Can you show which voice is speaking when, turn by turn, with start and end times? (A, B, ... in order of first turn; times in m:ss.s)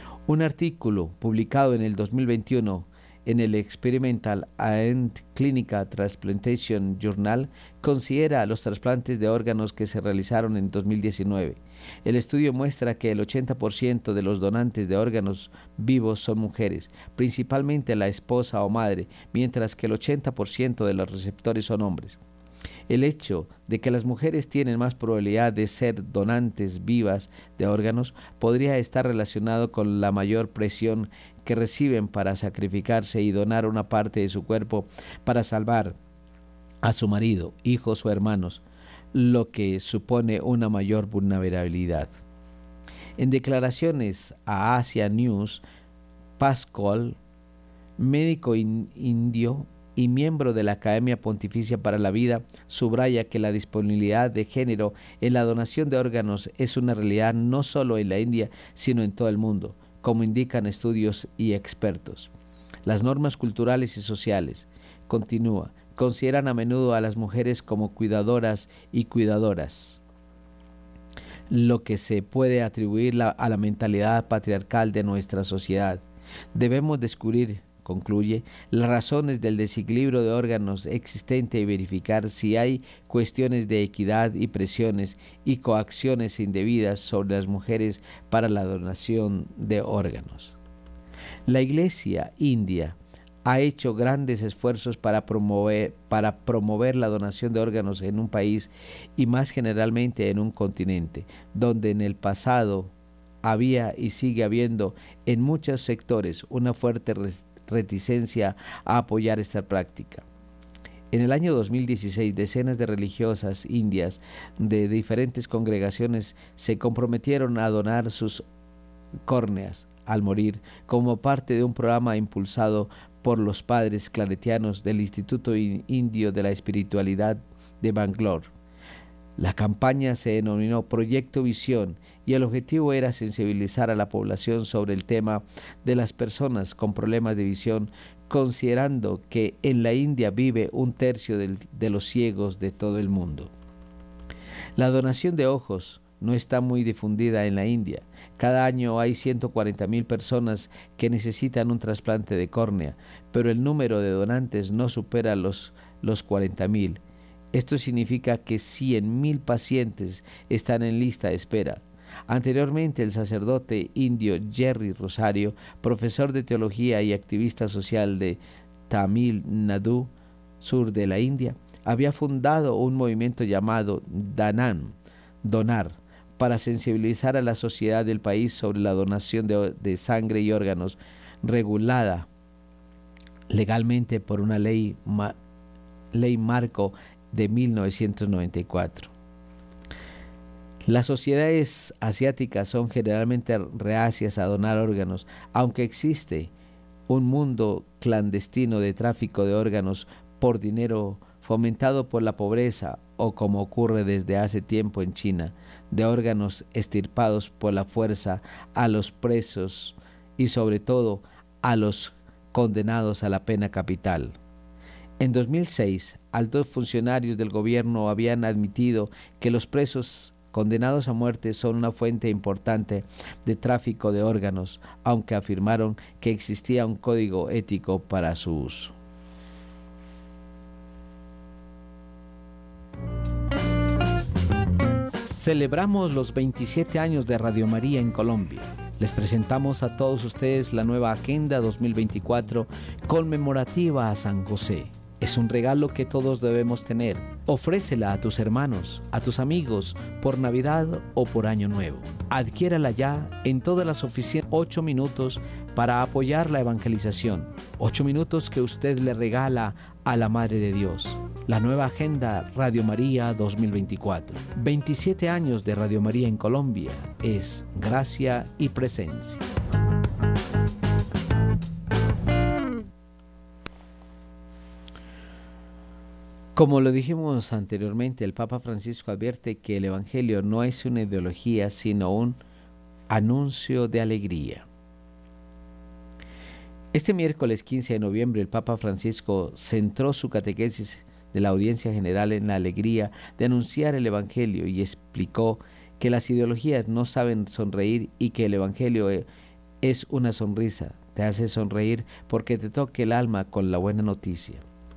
0:00.3-0:22.2 A
0:22.9-0:36.0 A
0:36.8-0:38.6 A
0:39.1-0:42.2 A
0:43.2-0:45.6 A
0:46.4-0:47.2 A
0:48.0-1:02.3 A
1:02.8-1:10.0 A
1:11.5-1:16.0 A
1:16.5-1:30.6 A
1:31.5-1:42.9 A
1:43.4-1:50.2 A
1:51.1-1:58.5 A
1:59.2-2:08.5 A
2:09.4-2:23.5 A
2:24.8-2:37.0 A
2:37.5-3:02.3 A
3:03.5-3:05.4 A
3:06.1-3:09.1 A
3:10.9-3:16.5 A
3:17.1-3:34.4 A
3:35.2-3:48.9 A
3:55.1-4:29.4 A
4:36.6-4:42.4 A
4:43.1-4:44.7 A
4:46.9-4:59.3 A
4:59.8-5:04.6 A